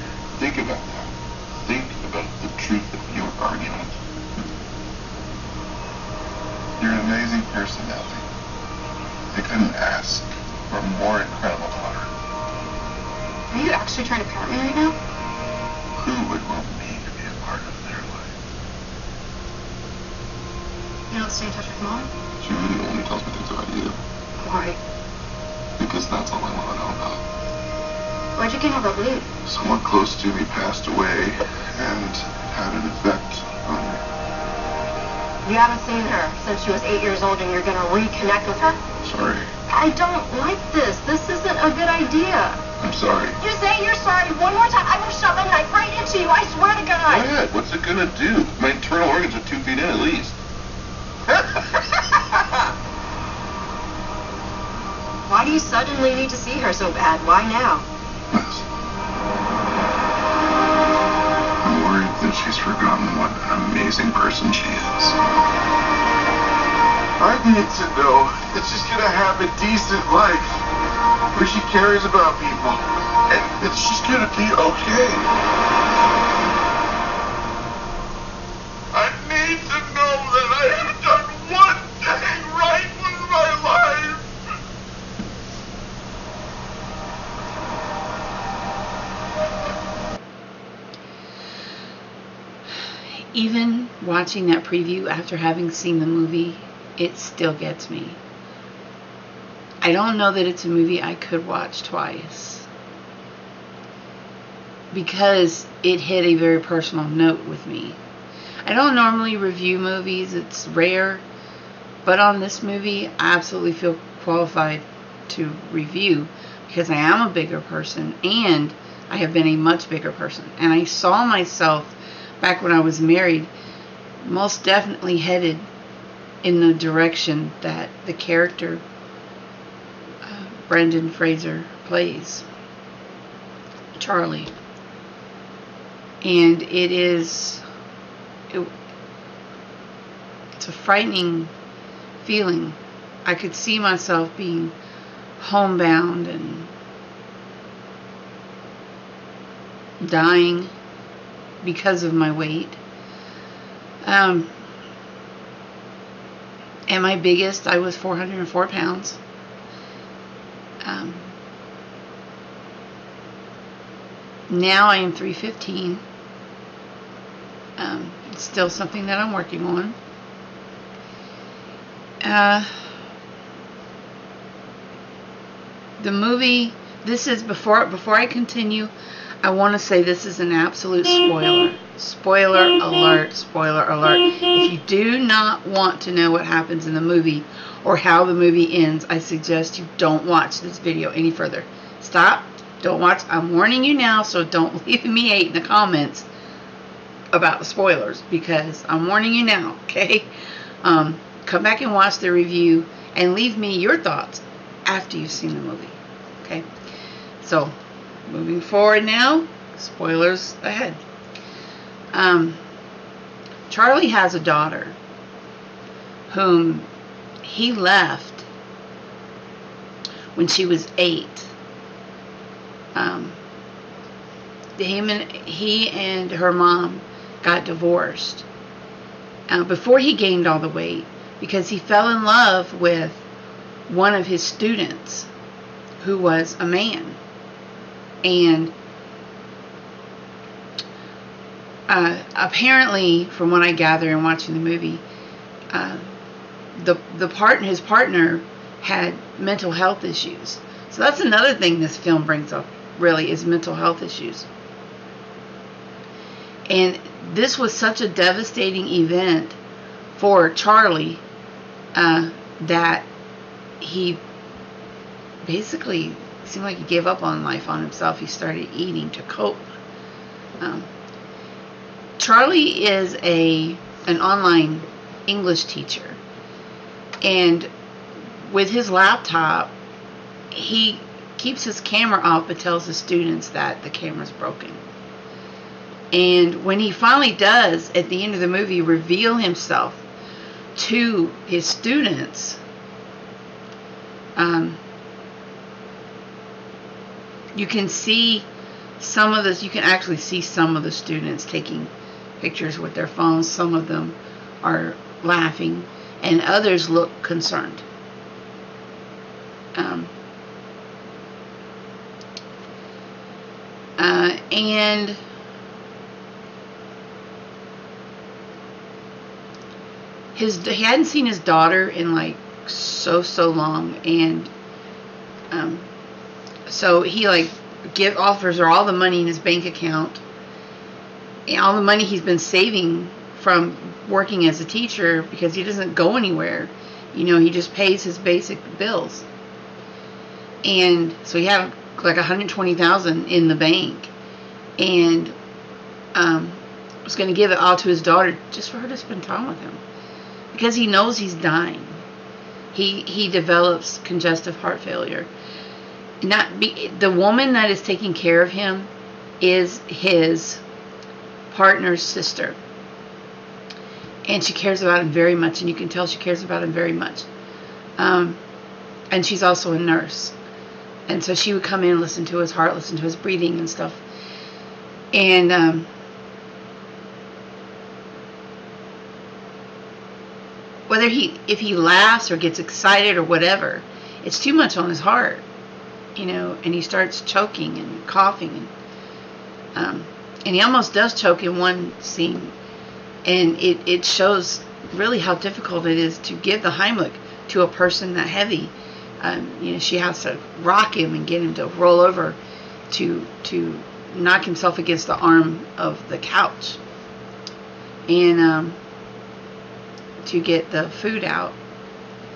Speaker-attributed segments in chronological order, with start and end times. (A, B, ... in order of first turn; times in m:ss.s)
0:00.3-0:03.9 A
0:06.8-0:08.2 A
0:09.3-0:12.1 A
0:13.5-0:15.0 B
0:16.0-0:18.4 A
0:21.1-0:22.1 B
0:22.4-0:24.0 A
0:24.4-0:24.8 B
0:25.8-0:27.2 A
0:28.4-0:29.3 B
0:29.4-0:34.0 A
0:35.4-0:38.8 B
0:39.0-0:39.5 A
0:39.7-0:42.6 B
0:42.8-0:43.4 A
0:43.4-0:47.3 B
0:47.1-0:50.4 A
0:55.3-0:57.8 B
0:58.3-0:58.6 A
1:01.6-1:05.1 A
1:07.2-1:10.6 A
1:11.3-1:15.3 A
1:18.9-1:24.3 A
1:32.8-1:38.2 C
1:39.8-1:42.7 C
1:44.9-1:48.0 C
1:48.6-1:51.2 C
1:52.0-2:03.5 C
2:04.2-2:05.6 C
2:06.4-2:08.8 C
2:10.2-2:12.4 C
2:13.9-2:14.5 C
2:16.2-2:17.6 C
2:20.5-2:21.5 C
2:22.2-2:24.7 C
2:25.4-2:26.7 C
2:30.0-2:30.7 C
2:31.6-2:32.8 C
2:34.0-2:34.5 C
2:36.9-2:39.2 C
2:40.8-2:41.3 C
2:44.5-2:46.0 C
2:47.8-2:50.0 C
2:52.2-2:52.7 C
2:56.0-3:16.3 C
3:17.3-3:20.3 C
3:20.8-3:26.7 C
3:27.4-3:27.7 C
3:28.3-3:31.0 C
3:32.1-3:32.6 C
3:33.7-3:35.0 C
3:36.3-3:36.9 C
3:37.4-3:38.4 C
3:40.3-3:41.5 C
3:42.9-3:43.4 C
3:44.8-3:48.4 C
3:49.5-3:53.2 C
3:53.9-3:55.3 C
3:56.0-3:57.2 C
3:58.2-3:58.7 C
4:01.9-4:05.0 C
4:05.7-4:06.0 C
4:06.8-4:14.5 C
4:16.7-4:19.6 C
4:20.1-4:21.2 C
4:21.9-4:23.1 C
4:23.8-4:24.2 C
4:25.4-4:29.7 C
4:30.6-4:30.9 C
4:32.2-4:36.2 C
4:37.2-4:37.7 C
4:38.4-4:39.7 C
4:40.5-4:44.8 C
4:46.1-4:50.0 C
4:50.7-4:52.6 C
4:54.4-4:54.8 C
4:57.5-4:58.5 C
4:59.0-5:07.8 C
5:09.7-5:10.1 C
5:14.0-5:15.2 C
5:20.3-5:24.5 C
5:25.5-5:25.9 C
5:26.6-5:30.2 C
5:31.5-5:39.2 C
5:40.6-5:44.1 C
5:44.8-5:45.3 C
5:46.1-5:49.8 C
5:50.5-5:52.0 C
5:52.7-5:55.3 C
5:56.2-6:00.6 C
6:01.5-6:02.6 C
6:04.2-6:07.3 C
6:08.0-6:08.4 C
6:09.1-6:10.3 C
6:11.1-6:14.0 C
6:15.1-6:15.9 C
6:20.9-6:25.4 C
6:26.1-6:28.7 C
6:29.7-6:32.5 C
6:33.2-6:42.4 C
6:42.9-6:46.8 C
6:48.1-6:48.8 C
6:50.2-6:51.6 C